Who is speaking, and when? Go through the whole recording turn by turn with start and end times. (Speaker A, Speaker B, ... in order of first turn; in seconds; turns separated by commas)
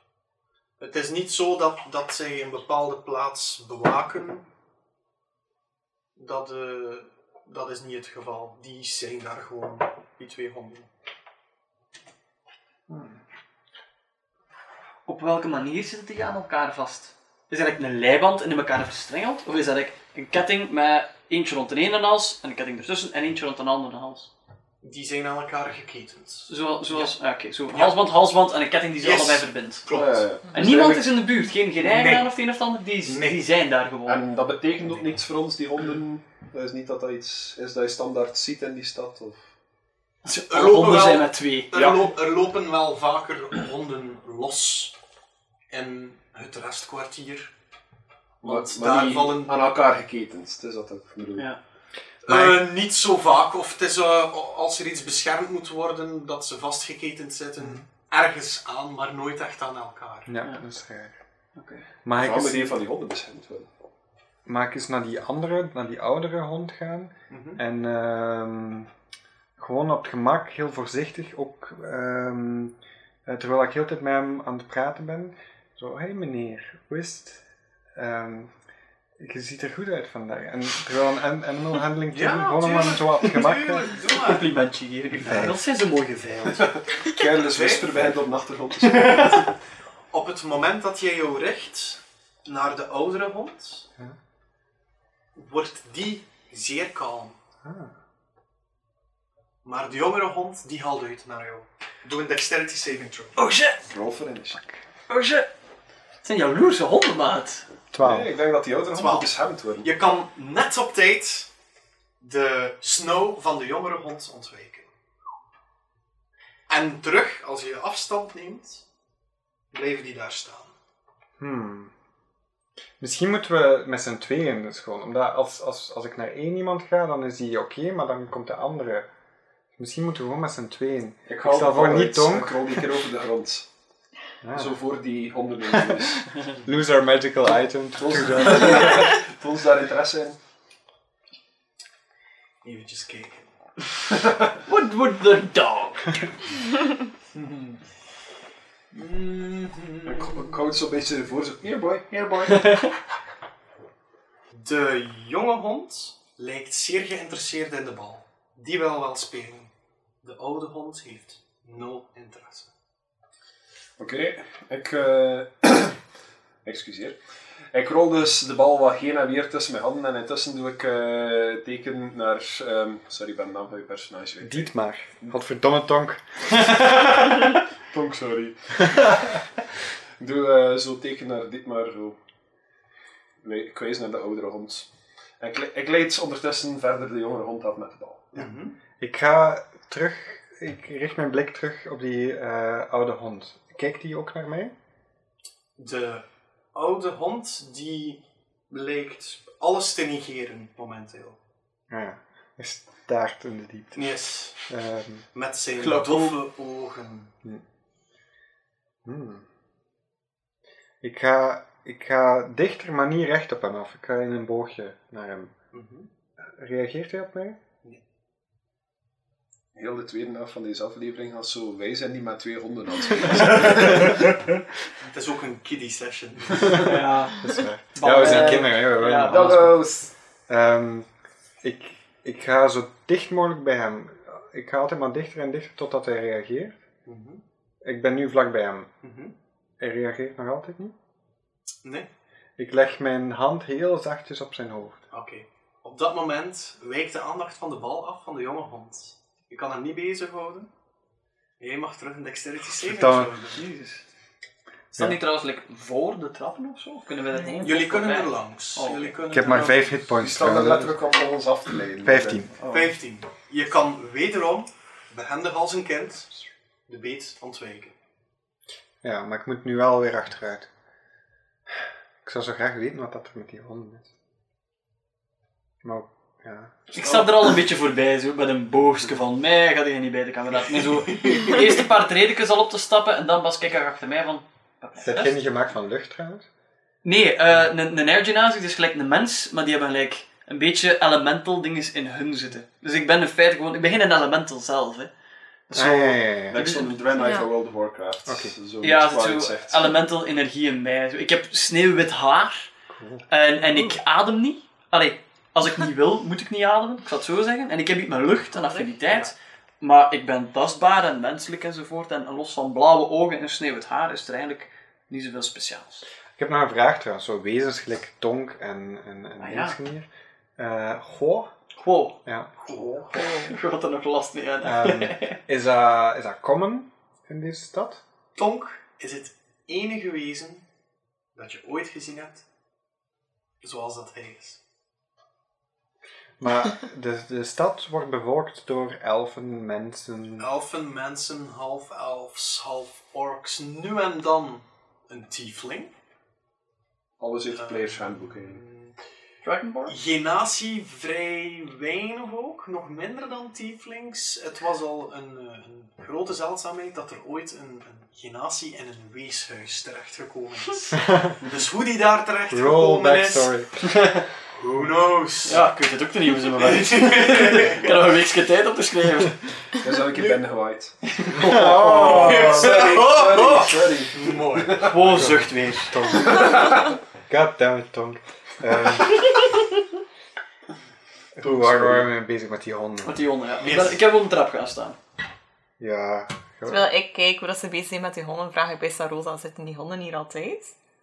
Speaker A: 0.8-4.5, Speaker A: 6.2-10.9, Speaker B: 12.9-13.2, Speaker C: 15.1-24.3, Speaker A: 24.8-27.1, Speaker C: 26.5-30.0, Speaker A: 27.7-28.0, Speaker A: 29.0-30.3, Speaker D: 29.9-31.1, Speaker C: 30.5-34.2, Speaker A: 31.8-32.3, Speaker A: 33.1-33.4, Speaker D: 34.1-39.4, Speaker C: 40.2-41.7, Speaker A: 40.5-44.9, Speaker D: 41.7-42.1, Speaker A: 45.7-47.5, Speaker A: 48.4-49.7, Speaker D: 48.4-51.5, Speaker A: 52.2-60.3, Speaker B: 52.3-52.6, Speaker B: 60.3-61.2, Speaker C: 61.6-61.9, Speaker B: 62.0-62.8, Speaker D: 62.2-63.7, Speaker B: 64.5-68.9, Speaker A: 67.3-67.6, Speaker B: 69.6-77.4, Speaker B: 78.0-78.5, Speaker B: 79.2-83.9, Speaker A: 82.1-84.5, Speaker C: 84.1-86.8, Speaker B: 85.2-85.6, Speaker D: 86.6-89.5, Speaker A: 87.4-88.1, Speaker C: 88.8-89.4, Speaker A: 90.1-93.9, Speaker A: 95.3-97.4, Speaker B: 97.6-97.9, Speaker A: 99.6-103.4, Speaker C: 103.4-103.8, Speaker D: 103.9-104.6, Speaker C: 105.1-105.5, Speaker C: 106.2-107.7, Speaker B: 107.9-108.3, Speaker D: 108.0-109.9, Speaker A: 108.9-111.5, Speaker A: 112.2-114.9, Speaker A: 116.7-118.8, Speaker A: 119.7-120.7, Speaker B: 121.4-121.9, Speaker B: 123.0-129.1, Speaker B: 129.8-132.9, Speaker D: 131.3-133.7, Speaker B: 134.4-134.8, Speaker D: 134.6-136.3, Speaker B: 135.8-139.2, Speaker D: 138.0-140.4, Speaker A: 142.6-143.5, Speaker C: 144.7-146.2, Speaker A: 147.4-147.8, Speaker A: 148.9-150.4, Speaker D: 150.1-152.9, Speaker A: 154.6-159.7, Speaker A: 160.2-162.7, Speaker D: 164.0-166.0, Speaker D: 166.7-167.2, Speaker D: 167.7-175.3, Speaker B: 174.4-176.5, Speaker D: 177.9-179.1, Speaker B: 178.9-179.2, Speaker D: 180.2-182.2, Speaker D: 183.4-188.5, Speaker A: 188.3-188.8, Speaker B: 189.0-194.7, Speaker A: 195.8-201.4, Speaker B: 201.9-205.3, Speaker A: 203.9-204.6, Speaker A: 205.3-207.3, Speaker C: 205.8-206.4, Speaker B: 209.1-209.5, Speaker B: 211.0-215.5, Speaker A: 215.7-216.1, Speaker B: 216.4-217.6, Speaker D: 219.8-224.3, Speaker A: 225.0-227.0, Speaker C: 226.7-229.6, Speaker B: 227.4-229.9, Speaker D: 229.3-230.1, Speaker B: 230.5-231.1, Speaker B: 231.6-236.8, Speaker A: 237.1-237.4, Speaker B: 237.8-238.9, Speaker A: 239.0-239.3, Speaker B: 239.8-240.9, Speaker A: 241.8-242.1, Speaker B: 242.6-245.0, Speaker A: 245.1-250.7, Speaker A: 251.6-253.6, Speaker B: 252.8-253.3, Speaker C: 253.5-254.0, Speaker C: 254.9-259.2, Speaker B: 255.0-255.2, Speaker E: 257.4-257.7, Speaker A: 257.6-260.0, Speaker B: 259.3-261.0, Speaker D: 260.2-262.4, Speaker B: 262.0-262.5, Speaker C: 262.6-262.9, Speaker A: 262.7-266.3, Speaker A: 266.9-267.9, Speaker B: 269.0-270.7, Speaker B: 272.2-274.1, Speaker B: 275.8-276.7, Speaker A: 276.9-277.3, Speaker C: 276.9-285.4, Speaker A: 281.1-281.6, Speaker B: 285.0-286.5, Speaker C: 287.0-295.1, Speaker C: 295.7-296.9, Speaker B: 295.7-296.6, Speaker D: 296.5-299.9, Speaker E: 297.2-297.5, Speaker B: 298.3-298.6, Speaker C: 298.8-302.7, Speaker B: 302.9-303.3, Speaker C: 303.3-316.1, Speaker E: 308.6-308.9, Speaker B: 316.4-321.5, Speaker C: 319.4-319.8, Speaker C: 321.8-322.2, Speaker B: 322.2-322.5, Speaker A: 322.7-323.1, Speaker C: 323.1-325.4, Speaker E: 323.2-323.5, Speaker B: 324.6-328.0, Speaker A: 328.4-330.6, Speaker A: 331.4-332.4, Speaker A: 333.6-334.6, Speaker B: 336.4-340.5, Speaker A: 340.4-345.9, Speaker D: 347.2-348.6, Speaker A: 347.5-349.0, Speaker C: 349.4-349.9, Speaker A: 349.9-363.5, Speaker B: 361.1-361.4, Speaker B: 362.5-363.8, Speaker A: 364.6-365.6, Speaker C: 365.5-369.5, Speaker A: 366.6-367.9, Speaker D: 367.8-368.1, Speaker D: 369.8-375.2, Speaker B: 371.3-372.9, Speaker A: 371.8-375.2, Speaker C: 374.8-376.4, Speaker B: 375.0-379.4, Speaker B: 381.4-383.2, Speaker D: 381.4-382.1, Speaker C: 383.0-385.0, Speaker A: 383.6-384.0, Speaker B: 385.8-386.9, Speaker E: 386.7-390.7